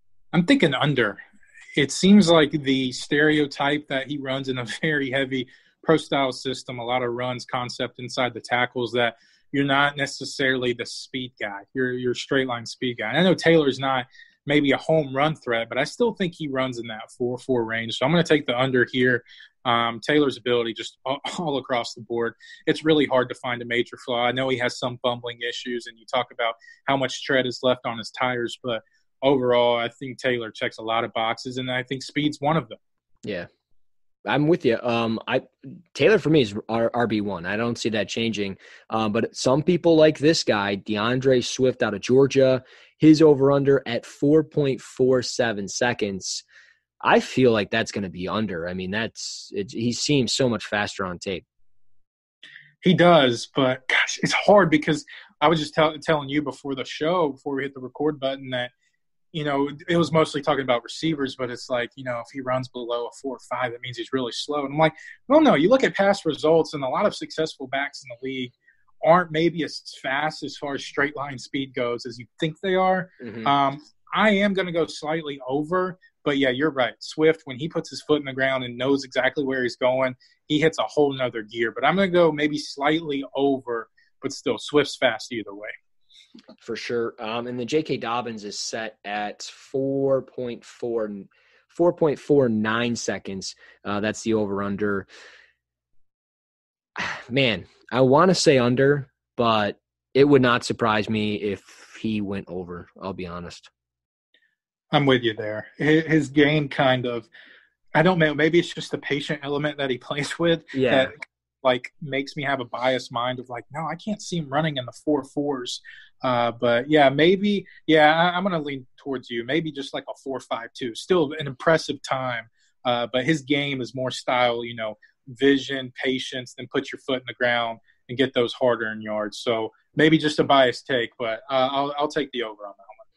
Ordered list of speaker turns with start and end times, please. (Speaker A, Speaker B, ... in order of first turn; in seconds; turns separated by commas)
Speaker A: 0.3-1.2, Speaker A: 1.8-32.8, Speaker B: 33.2-33.5, Speaker B: 34.3-46.4, Speaker B: 47.0-51.5, Speaker A: 52.8-58.7, Speaker A: 59.3-85.7, Speaker B: 73.2-73.5, Speaker B: 86.6-95.1, Speaker B: 97.0-103.7, Speaker A: 104.9-107.3, Speaker A: 108.0-133.0, Speaker B: 110.7-111.1